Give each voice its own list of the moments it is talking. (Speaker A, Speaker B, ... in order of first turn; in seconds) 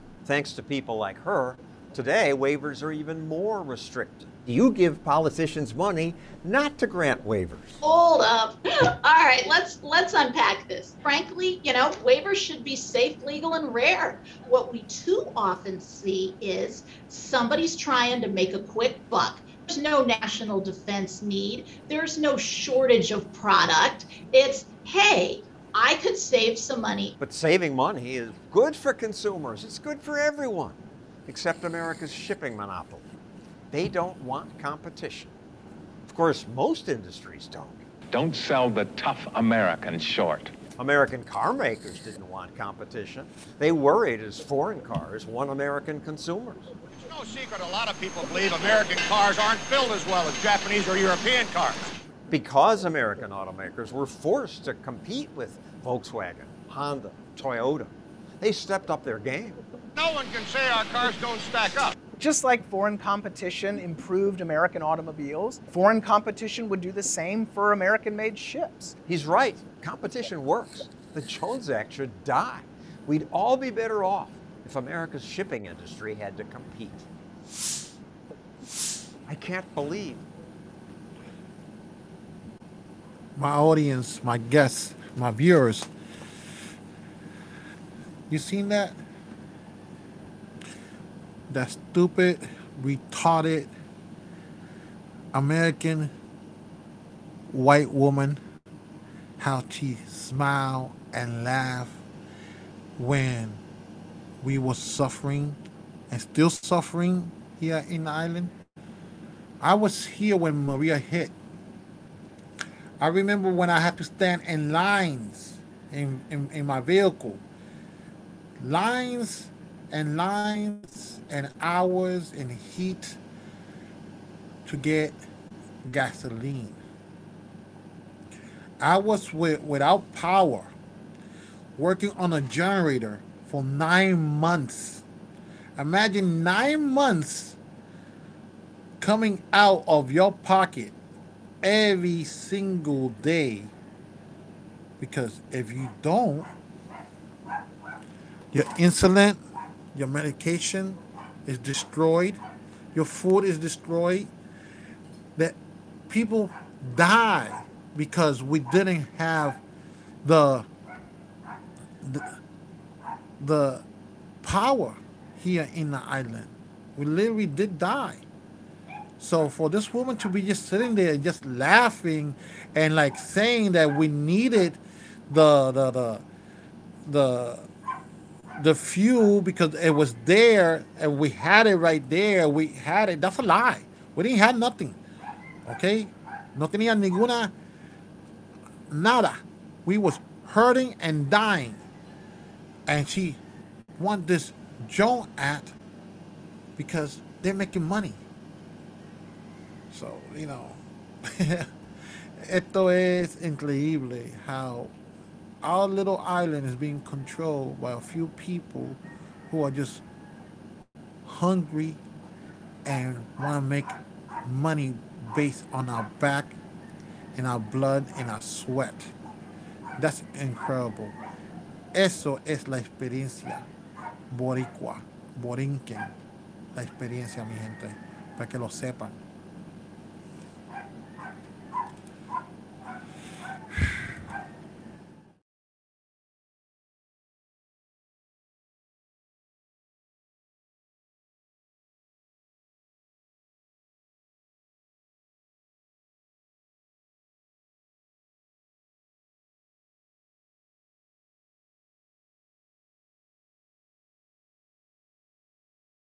Speaker A: 0.2-7.8, 27.2-33.0, 33.7-35.3, 36.1-37.8, 40.8-46.7, 52.3-59.6, 69.1-77.0, 79.3-80.2
Speaker B: 7.8-27.2
Speaker C: 38.1-40.5
Speaker D: 47.0-51.9, 60.0-62.0
Speaker E: 62.2-69.0
Speaker F: 83.3-85.9, 88.3-89.0, 91.5-93.7, 95.3-96.1, 97.5-98.4, 99.4-102.0, 103.0-103.6, 104.4-108.5, 109.6-111.3, 113.0-117.4, 118.6-123.2, 124.7-125.2, 125.9-126.8, 128.8-130.7, 131.8-135.0, 135.8-137.6, 139.0-140.9, 141.6-143.7, 145.0-146.5, 148.5-149.4, 149.9-152.4, 152.9-154.3, 156.1-159.6, 160.2-160.7, 162.0-162.4, 163.4-163.8, 164.4-168.2, 169.2-176.2, 177.0-177.7, 178.6-185.0, 185.7-187.5, 188.9-191.8, 192.9-193.4, 194.0-195.8, 196.8-198.2, 199.9-201.7, 202.4-204.9, 205.6-210.1, 211.2-212.0, 212.8-216.6, 217.3-219.1, 220.0-221.2, 221.9-223.7, 224.3-226.1, 226.7-229.2